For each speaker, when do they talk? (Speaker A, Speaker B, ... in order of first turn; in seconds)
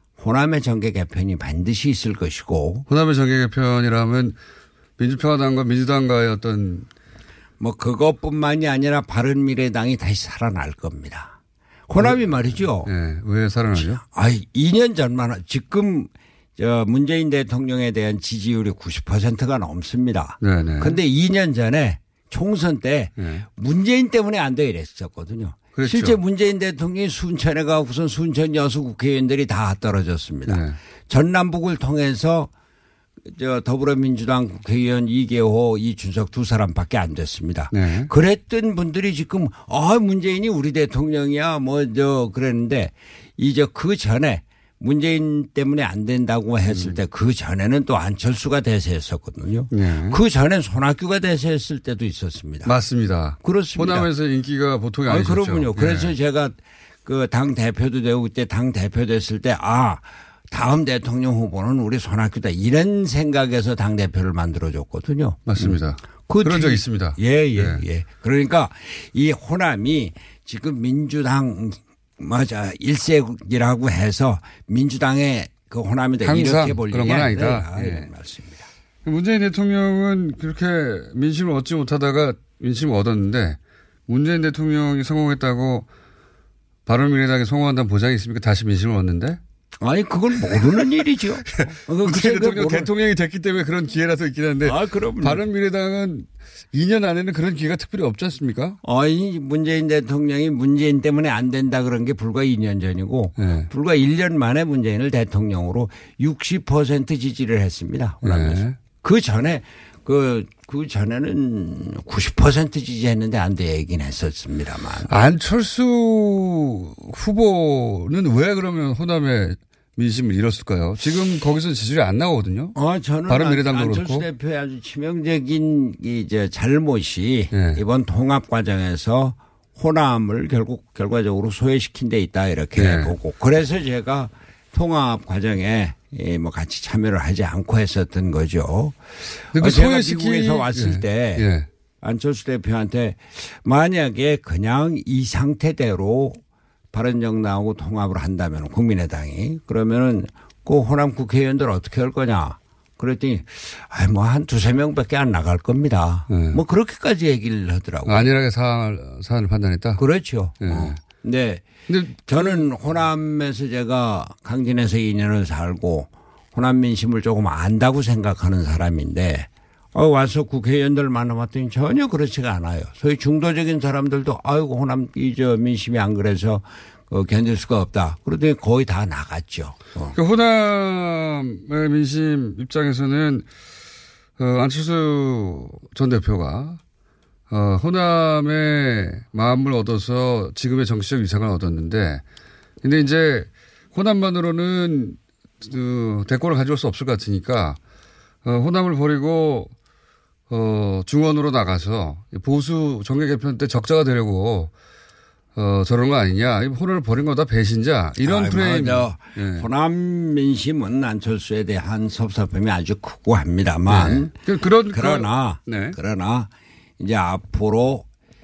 Speaker A: 0.2-2.9, 7.6-11.3, 11.9-12.9, 13.7-32.5, 33.2-52.7, 53.4-54.1, 55.0-78.7, 89.8-92.9, 94.6-95.4, 98.8-115.1, 122.7-141.5, 142.0-146.4, 146.9-158.3, 160.0-180.2, 208.2-214.3, 214.9-218.1
Speaker B: 2.9-4.4, 5.0-6.9, 12.0-14.0, 20.4-21.0, 23.2-23.4, 25.8-26.2, 30.5-30.8, 37.7-38.1, 46.7-47.0, 49.7-50.2, 52.6-56.1, 65.5-67.8, 76.2-78.1, 79.0-85.9, 86.8-89.4, 90.5-90.8, 91.6-98.8, 103.4-103.7, 108.2-108.8, 115.1-122.8, 123.3-124.3, 127.5-127.8, 132.7-133.1, 139.5-141.7, 156.3-156.6, 158.1-160.0, 160.6-161.0, 161.9-162.7, 180.2-183.4, 184.4-186.8, 187.5-192.2, 192.8-197.8, 198.4-199.7, 200.5-204.7, 205.6-209.7, 213.9-216.0